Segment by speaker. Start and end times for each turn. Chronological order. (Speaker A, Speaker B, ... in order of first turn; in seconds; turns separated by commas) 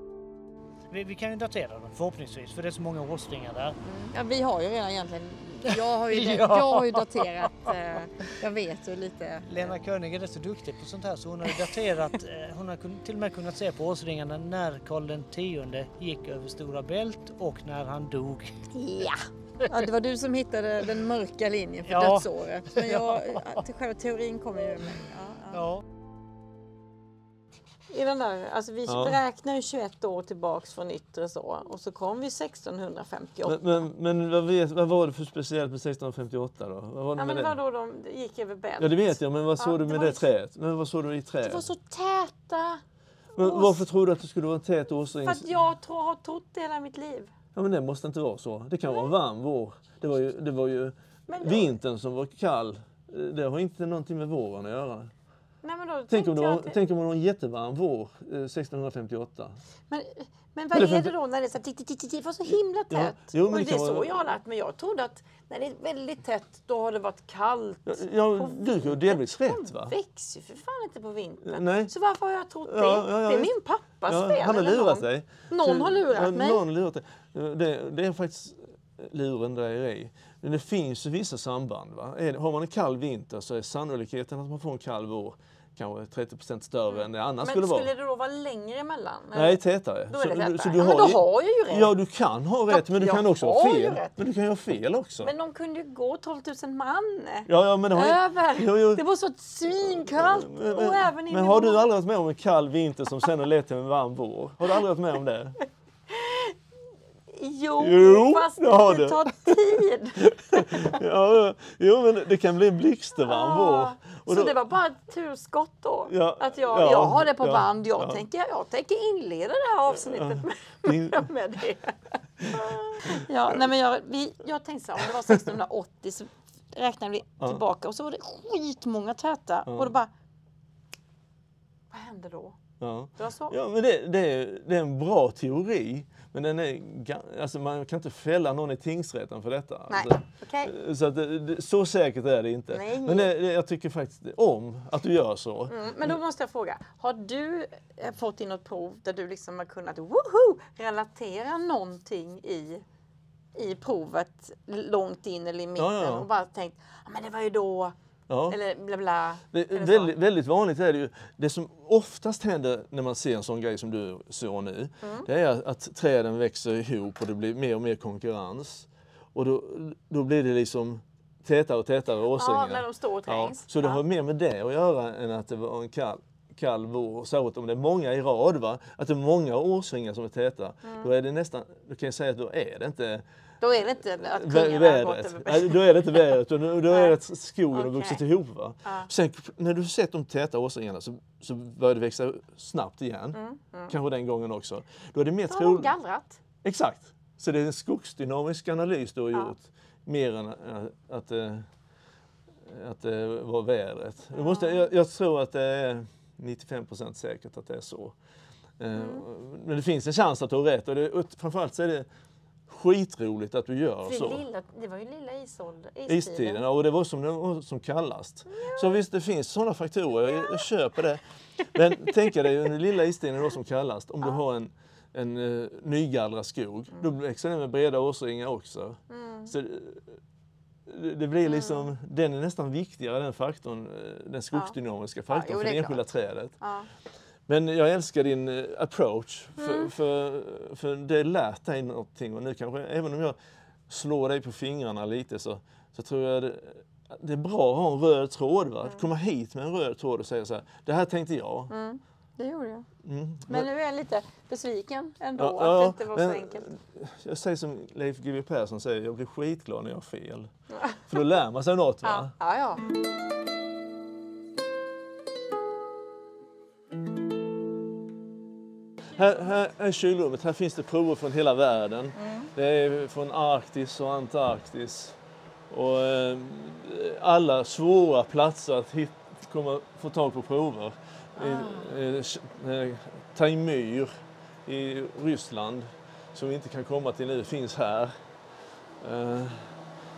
Speaker A: 0.9-3.8, Speaker B: 3.8-9.8, Speaker A: 6.1-7.0, Speaker A: 9.4-18.7, Speaker B: 18.7-25.7, Speaker A: 21.9-23.6, Speaker A: 25.5-25.8, Speaker B: 27.9-33.8, Speaker C: 28.9-29.2, Speaker C: 33.4-37.6, Speaker B: 37.1-40.3, Speaker C: 38.8-41.6, Speaker B: 41.4-42.8, Speaker B: 43.3-43.8, Speaker C: 43.4-45.5, Speaker B: 45.2-47.3, Speaker C: 47.5-55.1, Speaker B: 51.3-51.8, Speaker B: 55.6-56.8, Speaker C: 56.1-59.6, Speaker B: 59.9-76.6, Speaker C: 60.7-61.1, Speaker C: 62.5-64.3, Speaker C: 67.8-70.0, Speaker C: 71.5-71.9, Speaker C: 72.6-73.5, Speaker C: 74.0-87.9, Speaker B: 86.9-89.6, Speaker C: 89.3-95.3, Speaker B: 90.1-91.9, Speaker B: 92.7-94.1, Speaker B: 95.2-101.8, Speaker C: 97.5-99.0, Speaker C: 99.8-105.6, Speaker B: 106.1-106.5, Speaker B: 107.3-111.0, Speaker C: 107.8-109.5, Speaker C: 110.2-114.6, Speaker B: 113.2-130.1, Speaker C: 116.1-118.2, Speaker C: 119.9-121.3, Speaker C: 122.4-123.6, Speaker C: 129.7-129.9, Speaker B: 131.9-132.6, Speaker C: 132.8-146.2, Speaker B: 133.2-133.6, Speaker B: 139.9-140.7, Speaker B: 142.7-143.3, Speaker B: 145.7-152.8, Speaker B: 153.5-157.9, Speaker C: 155.8-156.3, Speaker C: 158.3-158.6, Speaker B: 158.5-160.1, Speaker C: 159.5-183.2, Speaker B: 165.0-165.3, Speaker B: 172.3-174.0, Speaker B: 180.8-181.1, Speaker B: 183.6-186.2, Speaker C: 184.0-195.9, Speaker B: 186.9-187.2, Speaker B: 187.7-188.2, Speaker B: 188.8-189.1, Speaker B: 193.3-193.9, Speaker B: 195.5-196.4, Speaker C: 196.6-201.7, Speaker C: 202.7-208.2, Speaker B: 204.3-204.8, Speaker C: 208.8-212.1, Speaker B: 208.9-209.2, Speaker C: 212.7-214.4, Speaker B: 214.0-216.6, Speaker C: 216.1-230.2, Speaker B: 218.5-219.0, Speaker B: 229.1-229.5, Speaker C: 230.8-236.6, Speaker B: 231.4-231.9, Speaker B: 235.3-236.0, Speaker B: 236.6-236.9, Speaker C: 237.5-251.7, Speaker B: 239.6-239.9, Speaker B: 251.7-252.9, Speaker C: 253.0-253.7, Speaker B: 253.5-256.7, Speaker C: 255.4-260.5, Speaker B: 260.7-261.0, Speaker C: 261.0-262.3, Speaker B: 262.0-262.9, Speaker C: 269.1-275.2, Speaker B: 272.1-272.5, Speaker C: 275.7-284.1, Speaker B: 281.4-281.9, Speaker C: 284.6-288.1, Speaker C: 289.0-289.8